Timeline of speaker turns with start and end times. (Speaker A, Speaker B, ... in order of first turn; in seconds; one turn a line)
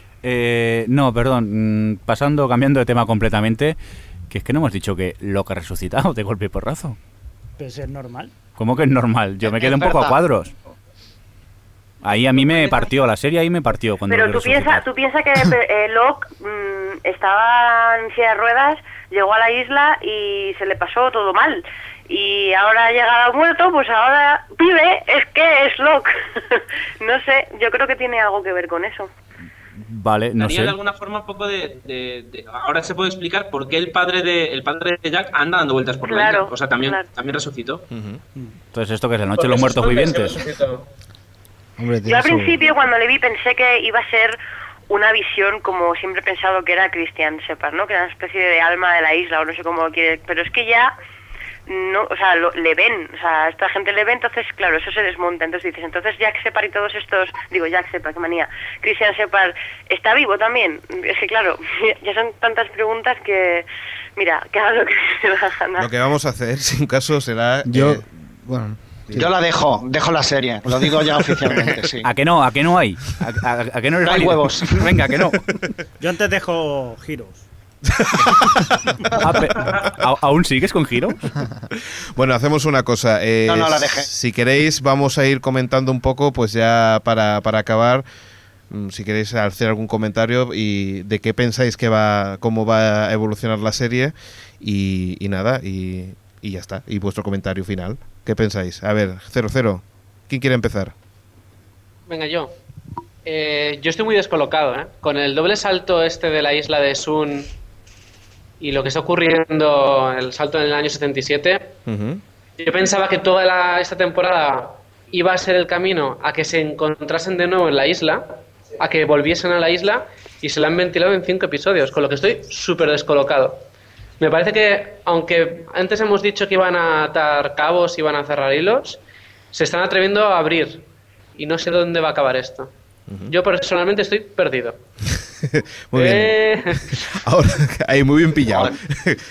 Speaker A: 0.2-3.8
Speaker A: 4.3-7.0
Speaker B: 7.6-8.3
Speaker A: 8.6-10.5
Speaker C: 9.4-10.2
Speaker A: 12.0-14.8
Speaker D: 14.1-29.1
Speaker A: 29.8-30.8
Speaker E: 30.4-37.8
Speaker D: 36.0-37.0
Speaker F: 37.9-38.2
Speaker A: 38.7-40.4
Speaker E: 39.4-40.9
Speaker G: 41.8-42.6
Speaker D: 42.1-44.4
Speaker D: 44.9-50.9
Speaker D: 51.7-63.7
Speaker D: 64.2-65.9
Speaker F: 65.8-68.0
Speaker G: 67.7-69.3
Speaker C: 69.1-72.1
Speaker A: 72.0-75.4
Speaker C: 74.0-75.2
Speaker B: 76.0-77.5
Speaker F: 77.9-79.0
Speaker A: 79.2-81.2
Speaker F: 81.8-88.0
Speaker C: 83.5-84.1
Speaker F: 88.7-100.9
Speaker H: 102.1-102.5
Speaker H: 103.2-107.5
Speaker H: 108.6-111.8
Speaker F: 111.9-112.2
Speaker H: 112.6-123.6
Speaker H: 124.2-129.0
Speaker H: 129.5-130.8
Speaker H: 131.4-132.7
Speaker H: 133.3-134.8
Speaker F: 135.4-136.4
Speaker H: 135.9-136.9
Speaker F: 136.9-139.2